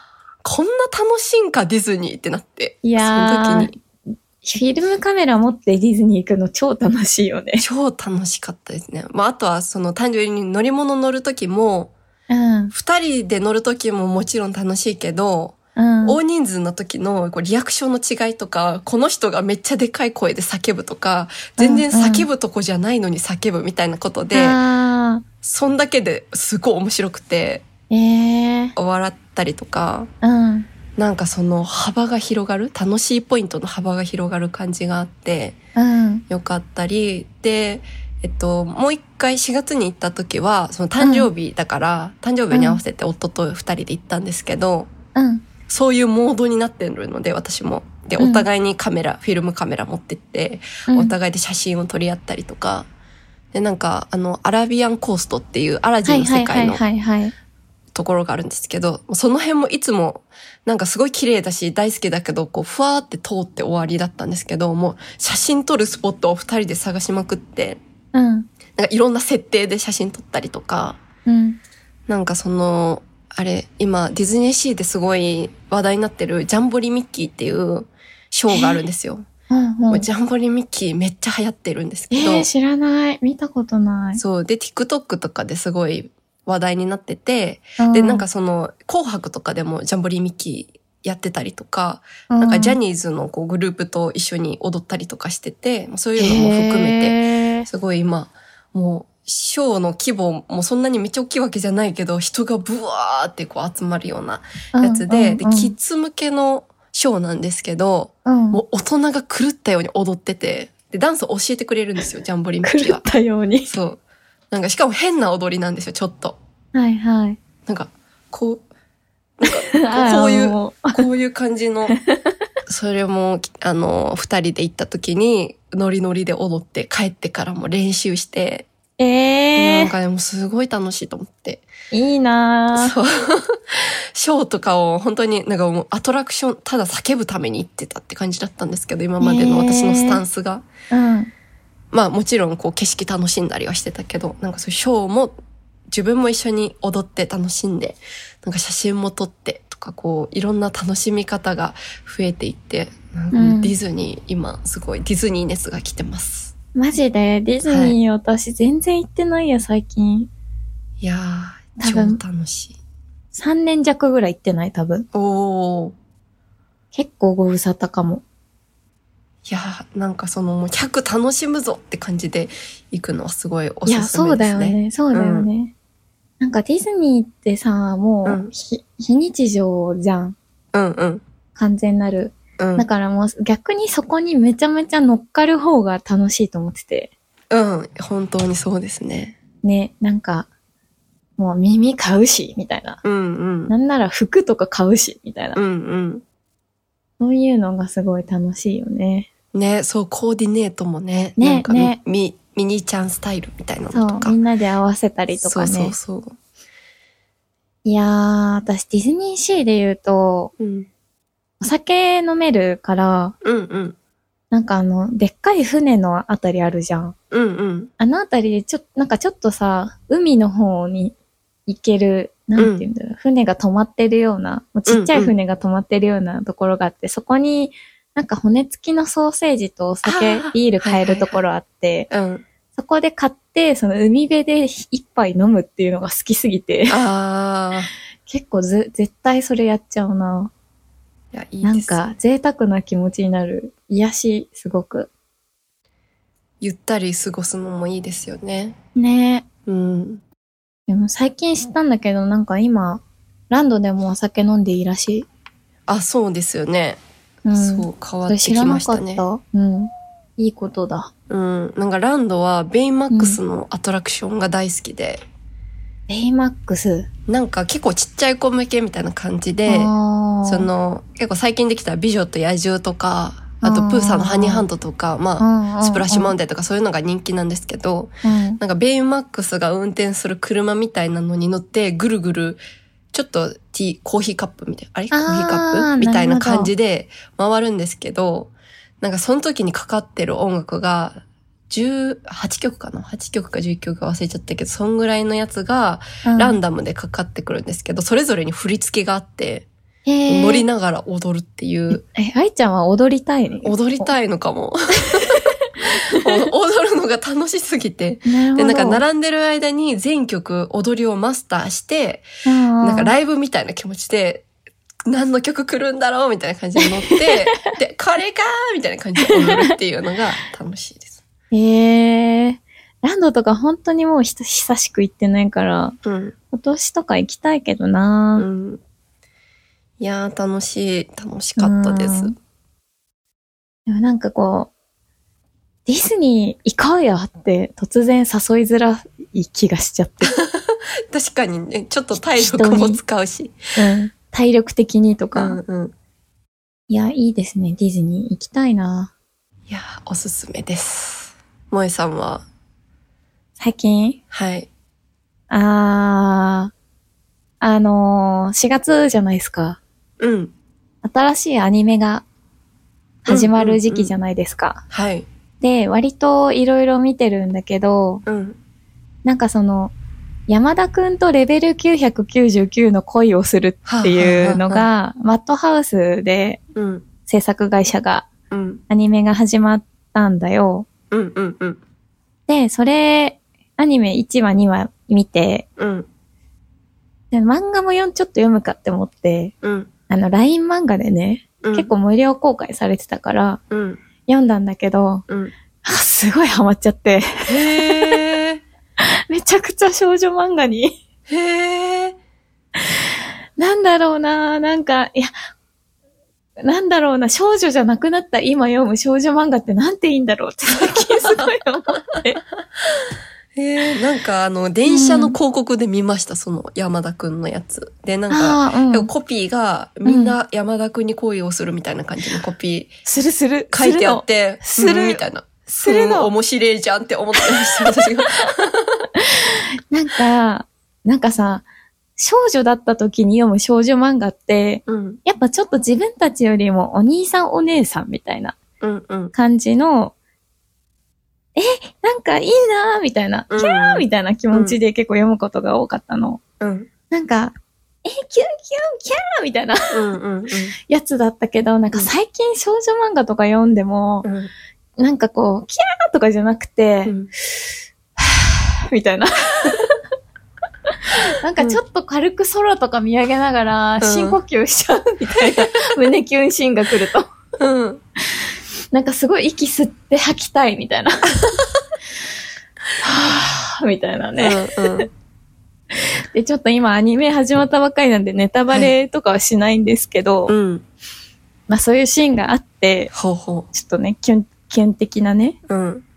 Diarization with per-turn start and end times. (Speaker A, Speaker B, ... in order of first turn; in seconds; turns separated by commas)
Speaker A: 0.4-3.7, Speaker B: 2.8-3.7, Speaker B: 4.4-7.6, Speaker A: 7.6-11.9, Speaker B: 12.3-12.7, Speaker A: 12.7-24.6, Speaker B: 15.8-16.2, Speaker B: 21.6-22.3, Speaker B: 24.3-25.2, Speaker A: 25.4-27.6, Speaker B: 27.9-28.7, Speaker A: 28.8-30.1, Speaker B: 30.2-30.7, Speaker A: 31.0-35.6, Speaker B: 35.8-36.2, Speaker A: 36.3-44.9, Speaker B: 41.0-41.3, Speaker B: 42.5-42.8, Speaker B: 45.1-45.4, Speaker A: 45.7-52.9, Speaker B: 48.2-48.5, Speaker B: 50.9-51.1, Speaker A: 53.5-56.8, Speaker B: 56.0-57.3, Speaker A: 57.9-67.8, Speaker B: 68.1-68.5, Speaker A: 68.8-71.0, Speaker B: 71.2-71.6, Speaker A: 72.1-79.2, Speaker B: 78.5-78.8, Speaker B: 79.5-80.1, Speaker A: 79.9-82.5, Speaker B: 82.1-84.2, Speaker A: 84.2-113.0, Speaker B: 87.8-88.2, Speaker B: 92.3-92.8, Speaker B: 96.2-97.7, Speaker B: 104.7-105.7, Speaker B: 108.2-108.6, Speaker B: 112.6-113.7, Speaker A: 113.7-114.0, Speaker A: 114.5-116.4, Speaker B: 116.7-117.4, Speaker A: 117.7-118.6, Speaker A: 119.4-122.0, Speaker B: 119.4-121.0, Speaker A: 122.7-128.7, Speaker B: 129.0-129.9, Speaker A: 129.6-131.7, Speaker B: 131.9-132.9, Speaker A: 132.7-140.7, Speaker B: 139.2-140.2, Speaker B: 140.9-141.3, Speaker A: 141.9-145.3, Speaker A: 145.9-156.5, Speaker B: 153.3-153.7, Speaker B: 156.7-160.3, Speaker A: 157.7-157.9, Speaker A: 161.0-162.8, Speaker B: 161.8-162.2, Speaker B: 163.3-165.1, Speaker A: 165.1-165.9, Speaker B: 166.9-168.2, Speaker A: 169.4-175.5, Speaker B: 173.8-175.7, Speaker B: 176.4-180.3, Speaker A: 178.2-178.5, Speaker A: 180.7-181.2, Speaker B: 181.6-187.1, Speaker A: 182.6-182.9, Speaker A: 187.5-189.3, Speaker B: 189.6-190.5, Speaker B: 191.4-193.0, Speaker A: 193.0-193.7, Speaker B: 193.7-195.6, Speaker A: 195.5-196.2, Speaker B: 197.2-199.3, Speaker A: 199.5-204.4, Speaker B: 201.4-202.0, Speaker B: 203.9-205.9, Speaker A: 205.4-206.3, Speaker B: 207.8-210.5, Speaker A: 210.6-210.9, Speaker B: 211.6-213.3, Speaker A: 213.4-213.9, Speaker B: 214.5-217.1, Speaker A: 217.3-217.9, Speaker B: 218.0-221.1, Speaker B: 221.7-232.1, Speaker A: 222.6-222.8, Speaker A: 224.9-225.3, Speaker A: 230.0-231.4, Speaker A: 232.1-232.4, Speaker B: 232.7-237.0, Speaker A: 236.9-237.9, Speaker B: 238.3-240.5, Speaker A: 241.3-242.0, Speaker B: 241.6-245.1, Speaker A: 246.6-248.8, Speaker B: 248.9-249.4, Speaker A: 249.7-250.2, Speaker B: 250.9-255.3, Speaker A: 255.9-257.0, Speaker B: 257.4-261.1, Speaker A: 257.5-259.2, Speaker A: 261.3-265.2, Speaker B: 263.1-263.4, Speaker B: 266.1-267.1, Speaker A: 267.3-269.9, Speaker B: 269.7-270.7, Speaker A: 270.4-282.6, Speaker B: 273.6-274.6, Speaker B: 275.4-276.3, Speaker B: 278.2-278.6, Speaker A: 283.1-299.7, Speaker B: 285.1-286.7, Speaker B: 296.2-296.6, Speaker B: 300.1-300.6, Speaker A: 300.3-302.0, Speaker B: 301.9-304.1, Speaker A: 303.6-305.4, Speaker B: 305.1-305.5, Speaker B: 306.0-306.4, Speaker A: 306.1-312.3, Speaker B: 308.2-309.0, Speaker B: 312.4-313.1, Speaker A: 312.8-314.4, Speaker A: 315.1-321.2, Speaker B: 316.8-317.7, Speaker B: 319.2-319.7, Speaker B: 321.5-325.9, Speaker A: 326.0-326.3, Speaker B: 326.5-328.4, Speaker A: 328.4-328.8, Speaker A: 330.0-332.3, Speaker B: 331.6-332.3, Speaker B: 333.9-334.7, Speaker B: 335.9-340.3, Speaker A: 340.2-343.6, Speaker B: 342.1-343.0, Speaker B: 343.8-345.6, Speaker A: 345.3-345.9, Speaker B: 346.9-349.1, Speaker A: 349.7-352.4, Speaker B: 353.6-354.2, Speaker A: 354.3-354.7, Speaker B: 355.5-356.7, Speaker B: 357.6-359.8, Speaker A: 360.2-360.5, Speaker B: 361.0-362.2, Speaker B: 363.2-364.8, Speaker A: 363.3-364.1, Speaker A: 364.9-365.2, Speaker B: 365.6-368.2, Speaker A: 368.2-368.6, Speaker B: 369.2-369.9, Speaker B: 370.5-376.6, Speaker A: 373.9-374.9, Speaker A: 376.7-377.0, Speaker B: 377.3-378.3, Speaker A: 378.5-378.8, Speaker B: 378.9-380.9, Speaker A: 381.1-381.8, Speaker B: 382.5-385.6, Speaker A: 385.8-386.1, Speaker B: 387.3-389.5, Speaker A: 389.6-389.9, Speaker B: 390.1-393.6, Speaker A: 391.6-391.9, Speaker A: 393.7-394.0, Speaker B: 394.3-395.2, Speaker A: 395.3-395.5, Speaker B: 395.8-398.2, Speaker A: 397.5-398.6, Speaker B: 399.0-401.0, Speaker A: 401.3-402.2, Speaker B: 403.6-405.3, Speaker B: 406.6-412.4, Speaker A: 410.8-411.5, Speaker A: 413.5-422.9, Speaker B: 414.9-415.4, Speaker B: 418.3-419.1, Speaker B: 420.0-420.4, Speaker B: 423.1-426.3, Speaker A: 423.7-429.1, Speaker B: 427.4-427.8, Speaker B: 429.2-431.6, Speaker B: 432.2-438.6, Speaker A: 434.9-435.2, Speaker A: 438.8-439.3, Speaker B: 439.3-440.1, Speaker B: 441.6-446.4, Speaker A: 443.5-444.8, Speaker A: 446.6-446.9, Speaker B: 447.1-447.5, Speaker B: 448.0-450.0, Speaker A: 449.9-450.7, Speaker B: 450.9-454.3, Speaker A: 454.2-454.5, Speaker B: 455.0-457.2, Speaker B: 458.2-459.9, Speaker B: 461.4-467.3, Speaker A: 464.0-464.4, Speaker A: 465.4-465.8, Speaker A: 467.6-468.0, Speaker B: 468.9-471.4, Speaker B: 473.0-475.1, Speaker A: 474.4-475.1, Speaker B: 475.9-480.5, Speaker A: 480.5-480.8, Speaker B: 481.7-483.1, Speaker A: 483.1-483.7, Speaker B: 483.7-485.6, Speaker A: 485.7-486.0